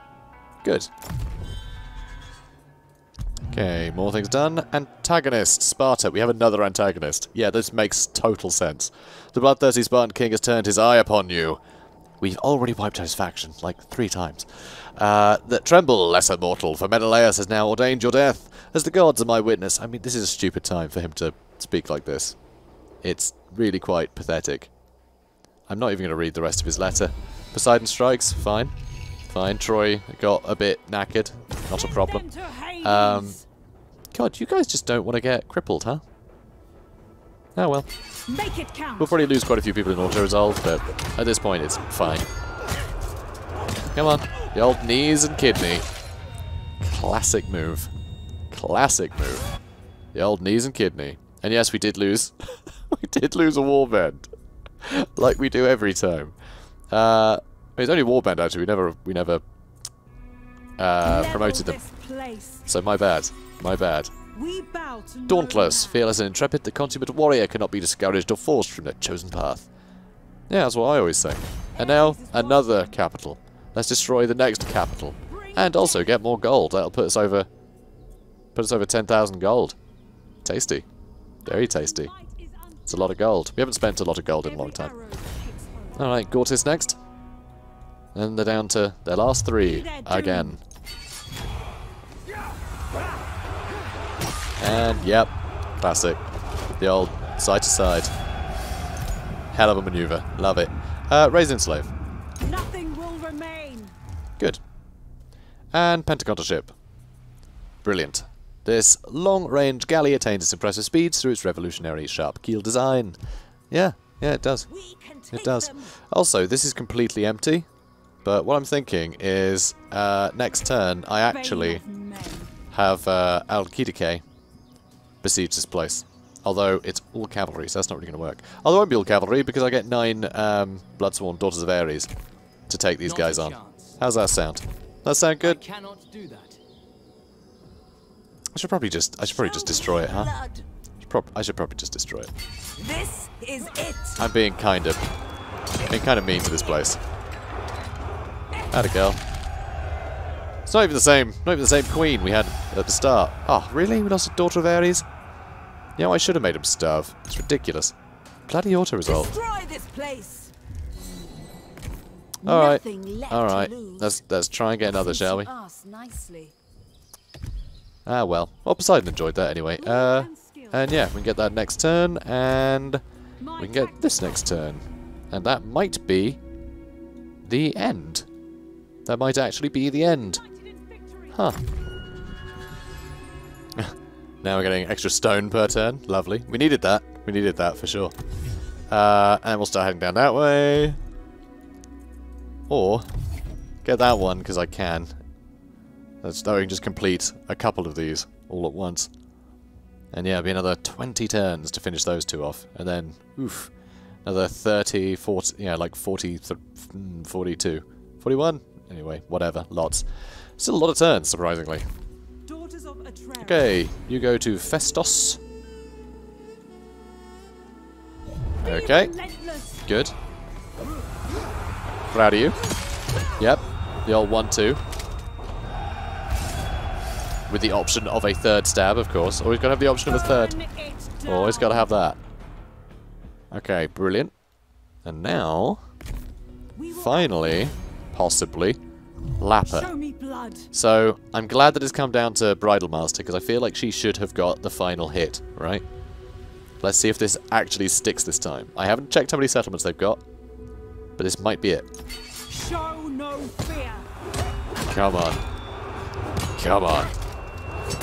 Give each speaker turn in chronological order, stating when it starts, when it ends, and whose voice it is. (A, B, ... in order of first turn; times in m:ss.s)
0:00.6-0:00.9 A
0:03.5-0:11.6 A
0:12.2-0:22.4 A
0:23.0-0:24.7 A
0:25.7-0:28.7 A
0:29.3-0:32.2 A
0:31.7-0:33.4 B
0:32.8-0:33.4 A
0:34.1-0:36.0 A
0:37.6-0:37.9 A
0:38.3-0:39.3 B
0:39.0-0:42.3 A
0:44.0-0:45.8 A
0:46.8-0:47.9 A
0:48.5-0:49.4 A
0:50.1-0:52.3 A
0:52.9-0:54.3 A
0:54.8-0:56.4 A
0:56.9-0:59.4 A
1:00.8-1:01.8 A
1:01.0-1:02.7 B
1:02.7-1:04.1 A
1:04.3-1:06.1 B
1:05.3-1:09.7 A
1:10.5-1:17.5 A
1:11.8-1:12.9 B
1:15.3-1:16.2 B
1:18.6-1:19.8 A
1:20.4-1:20.9 A
1:21.4-1:22.1 A
1:21.5-1:23.2 B
1:22.9-1:24.9 A
1:24.4-1:26.2 B
1:26.0-1:27.0 A
1:28.2-1:30.6 A
1:29.6-1:30.6 B
1:34.6-1:36.2 A
1:36.8-1:38.1 A
1:39.5-1:41.9 A
1:42.4-1:44.0 B
1:45.7-1:46.7 A
1:47.8-1:53.2 A
1:53.7-1:54.7 A
1:54.7-1:56.0 B
1:55.3-1:57.7 A
1:58.2-2:01.8 A
2:01.3-2:02.5 B
2:02.7-2:04.2 A
2:05.2-2:12.1 A
2:12.7-2:15.6 A
2:13.0-2:14.0 C
2:15.4-2:16.6 C
2:18.5-2:20.3 A
2:19.3-2:20.6 B
2:21.0-2:22.3 A
2:22.8-2:24.2 B
2:24.2-2:25.0 A
2:25.9-2:27.0 A
2:28.7-2:29.2 A
2:30.7-2:35.0 A
2:36.0-2:38.0 A
2:38.5-2:39.3 A
2:39.0-2:40.5 B
2:42.4-2:44.2 B
2:42.4-2:45.5 A
2:44.9-2:46.5 B
2:48.1-2:53.0 A
2:49.8-2:51.0 B
2:53.4-2:54.6 B
2:53.6-2:56.4 A
2:57.4-2:58.3 A
2:59.1-3:00.4 A
3:00.1-3:01.5 B
3:03.8-3:08.1 A
3:08.9-3:11.0 A
3:12.7-3:13.1 A
3:13.8-3:15.2 A
3:16.2-3:19.1 A
3:20.1-3:23.7 A
3:24.2-3:30.1 A
3:30.6-3:31.8 A
3:32.5-3:33.8 B
3:33.4-3:35.4 A
3:38.6-3:39.1 A
3:38.6-3:39.9 B
3:39.9-3:40.2 A
3:40.8-3:41.2 B
3:42.1-3:42.6 A
3:43.1-3:43.4 B
3:43.4-3:44.8 A
3:47.5-3:50.6 A
3:50.2-3:52.0 B
3:51.3-3:52.2 A
3:53.5-3:54.3 A
3:55.0-3:55.8 A
3:56.8-3:57.8 B
3:56.9-3:58.8 A
3:59.4-3:59.9 A
3:59.7-4:00.7 B
4:00.7-4:05.8 A
4:06.8-4:10.2 A
4:11.2-4:11.9 A
4:12.5-4:14.1 B
4:14.9-4:15.4 A
4:16.6-4:17.2 A